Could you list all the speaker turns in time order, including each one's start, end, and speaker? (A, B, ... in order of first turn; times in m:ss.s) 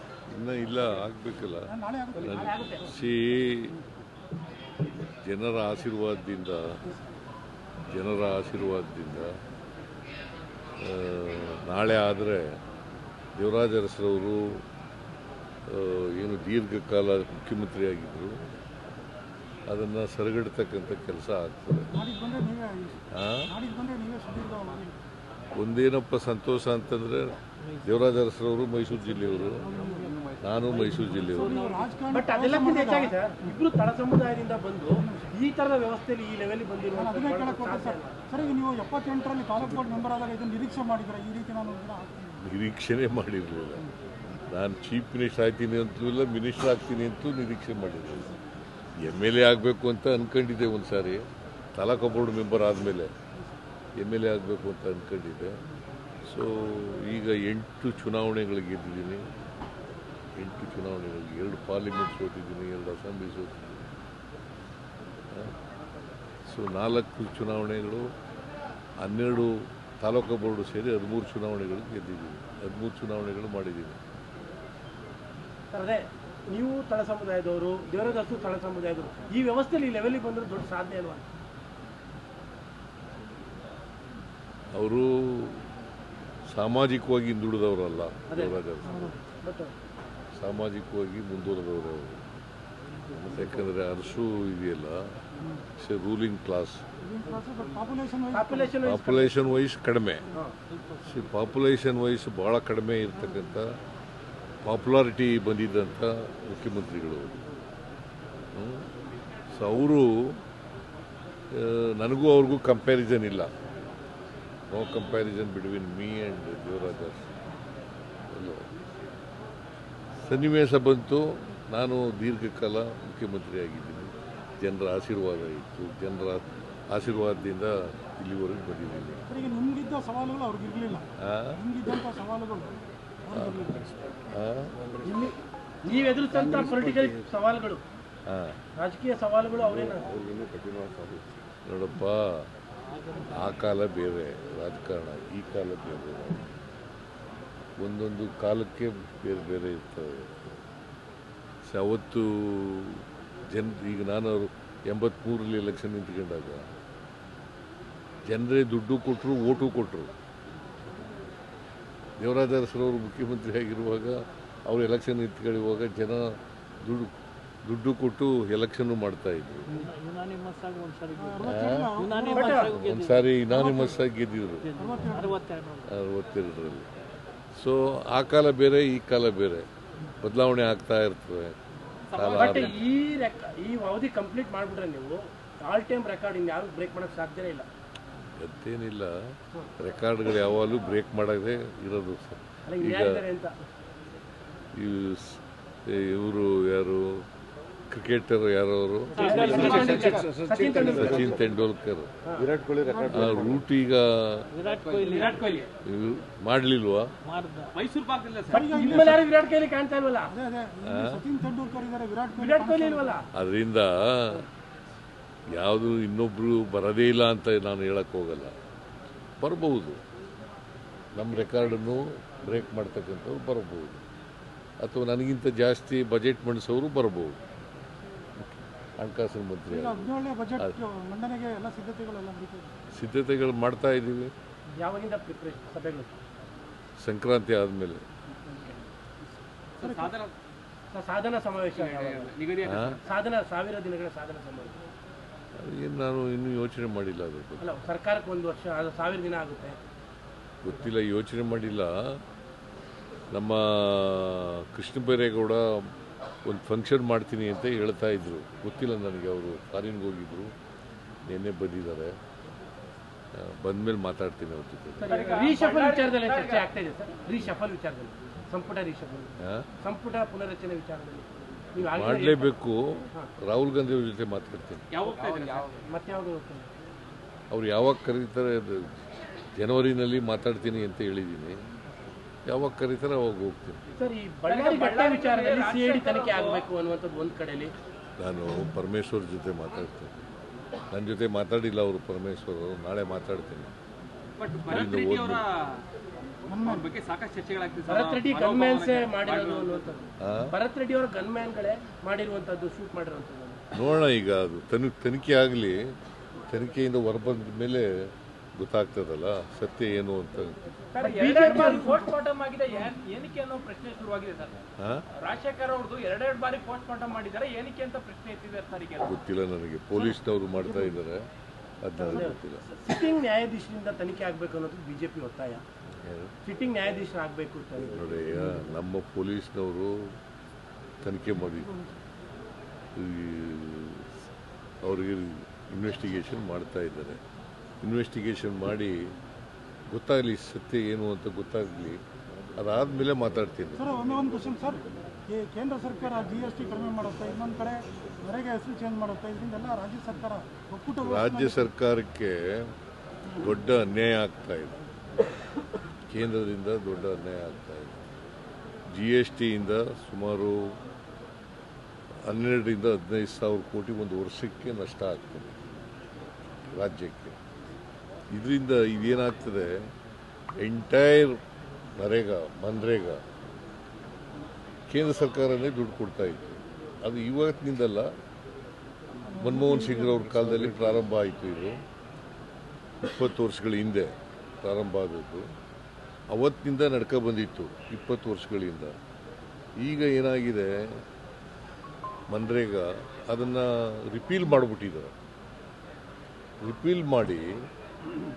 0:00.3-0:01.7 A
0:01.7-0:02.5 B
0:02.2-0:02.9 C
0:02.2-0:03.7 A
0:05.2-0:06.8 A
0:07.9-0:09.3 A
0:10.8-0:12.6 A
0:13.4-0:14.6 A
0:15.7-0:18.4 A
0:19.7-0:21.9 A
0:21.9-0:25.0 B
0:23.1-0:23.5 A
0:25.6-0:29.7 A
0:27.6-0:28.0 D
0:29.2-0:30.2 D
0:29.6-0:30.1 B
0:30.0-0:30.8 E
0:30.4-0:31.6 A
0:30.7-0:31.9 D
0:31.3-0:33.2 B
0:32.1-0:38.2 C
0:35.0-0:35.3 B
0:36.9-0:42.4 B
0:42.4-0:43.8 A
0:44.5-0:48.3 A
0:49.0-0:51.2 A
0:51.8-0:53.1 A
0:54.0-0:55.6 A
0:56.3-0:59.2 A
1:00.4-1:03.8 A
1:06.5-1:08.1 A
1:09.0-1:14.0 A
1:15.7-1:21.2 C
1:24.7-1:25.6 A
1:26.5-1:29.0 A
1:28.3-1:29.7 C
1:28.9-1:29.2 B
1:30.4-1:32.2 A
1:33.2-1:35.0 A
1:35.8-1:36.8 A
1:37.0-1:38.7 B
1:38.3-1:39.3 C
1:38.8-1:40.2 A
1:41.0-1:43.7 A
1:44.6-1:47.4 A
1:48.5-1:48.9 A
1:49.5-1:50.4 A
1:51.5-1:53.5 A
1:54.7-1:57.3 A
1:58.3-1:58.6 A
2:00.2-2:09.2 A
2:09.3-2:13.9 B
2:11.2-2:11.6 A
2:13.3-2:13.7 A
2:14.3-2:14.7 A
2:14.8-2:15.2 E
2:15.0-2:17.8 C
2:16.3-2:17.2 E
2:18.3-2:18.6 A
2:18.8-2:20.1 C
2:19.6-2:21.3 E
2:21.7-2:22.5 A
2:23.3-2:26.5 A
2:27.8-2:30.4 A
2:31.7-2:36.7 A
2:38.3-2:40.1 A
2:42.2-2:47.1 A
2:47.7-2:49.7 A
2:49.7-2:54.0 D
2:51.2-2:52.6 B
2:51.4-2:51.9 A
2:52.4-2:52.7 C
2:52.6-2:54.7 A
2:54.6-2:55.9 D
2:54.8-2:55.4 B
2:55.9-2:56.9 A
2:57.6-2:59.7 A
3:00.2-3:01.6 A
3:02.1-3:02.8 F
3:02.1-3:02.8 A
3:02.4-3:07.7 C
3:08.4-3:09.1 A
3:09.8-3:13.2 A
3:12.7-3:13.5 C
3:14.8-3:17.2 A
3:17.9-3:19.3 A
3:19.2-3:21.4 C
3:19.2-3:19.5 D
3:19.2-3:21.4 E
3:19.3-3:20.3 F
3:20.8-3:22.1 A
3:22.4-3:23.6 E
3:22.9-3:23.3 B
3:23.1-3:24.5 A
3:24.5-3:25.6 D
3:24.6-3:25.2 E
3:25.1-3:25.7 F
3:25.8-3:27.1 A
3:27.2-3:27.7 D
3:27.7-3:28.7 F
3:28.5-3:29.2 B
3:28.5-3:30.3 C
3:30.3-3:33.2 B
3:30.8-3:31.2 A
3:32.4-3:33.3 C
3:33.4-3:34.5 A
3:35.5-3:38.5 A
3:39.4-3:40.0 A
3:41.2-3:44.0 A
3:44.8-3:47.4 A
3:49.0-3:50.7 A
3:49.7-3:52.7 B
3:52.9-3:54.3 A
3:54.8-3:56.2 C
3:57.0-3:58.0 A
3:59.8-4:00.3 F
3:59.8-4:00.1 B
4:00.9-4:02.4 C
4:01.8-4:03.0 F
4:02.6-4:03.0 A
4:03.0-4:04.8 C
4:05.6-4:07.6 A
4:07.6-4:09.8 C
4:10.6-4:12.2 A
4:13.3-4:15.9 A
4:16.4-4:20.5 A
4:21.3-4:22.1 A
4:23.4-4:25.2 A
4:25.0-4:32.5 C
4:25.1-4:26.7 F
4:31.8-4:34.9 A
4:34.9-4:35.7 F
4:35.0-4:35.8 E
4:35.9-4:36.7 C
4:37.5-4:41.6 A
4:42.5-4:43.8 A
4:44.0-4:47.7 C
4:44.5-4:46.6 F
4:48.2-4:50.1 A
4:50.9-4:53.7 A
4:54.4-4:55.8 F
4:54.7-4:55.4 A
4:56.5-4:56.9 B
4:56.6-4:59.9 F
4:57.9-5:03.6 C
5:00.2-5:00.5 A
5:03.7-5:05.9 A
5:06.5-5:10.6 A
5:11.0-5:12.1 C
5:11.0-5:14.6 F
5:11.4-5:12.1 B
5:14.8-5:15.0 A
5:15.2-5:19.1 F
5:19.0-5:21.2 A
5:20.0-5:21.0 B
5:21.8-5:22.6 A
5:22.0-5:25.6 C
5:26.0-5:26.3 A
5:26.4-5:28.2 C
5:27.9-5:30.1 A
5:31.0-5:31.7 A
5:31.5-5:31.9 B
5:33.0-5:34.1 A
5:34.8-5:37.2 A
5:37.8-5:39.0 A
5:39.9-5:42.0 A
5:42.6-5:43.9 A
5:43.8-5:51.7 B
5:51.0-5:52.7 A
5:53.4-5:54.8 A
5:56.1-5:58.0 A
5:58.9-6:00.8 A
6:02.3-6:05.6 A
6:06.7-6:07.4 A
6:08.3-6:09.9 A
6:10.6-6:11.4 A
6:12.0-6:13.2 A
6:14.9-6:18.1 A
6:19.3-6:20.3 B
6:19.4-6:21.8 A
6:20.4-6:20.9 E
6:23.0-6:25.5 A
6:26.3-6:29.0 A
6:29.8-6:31.0 A
6:32.3-6:35.1 A
6:36.6-6:37.6 A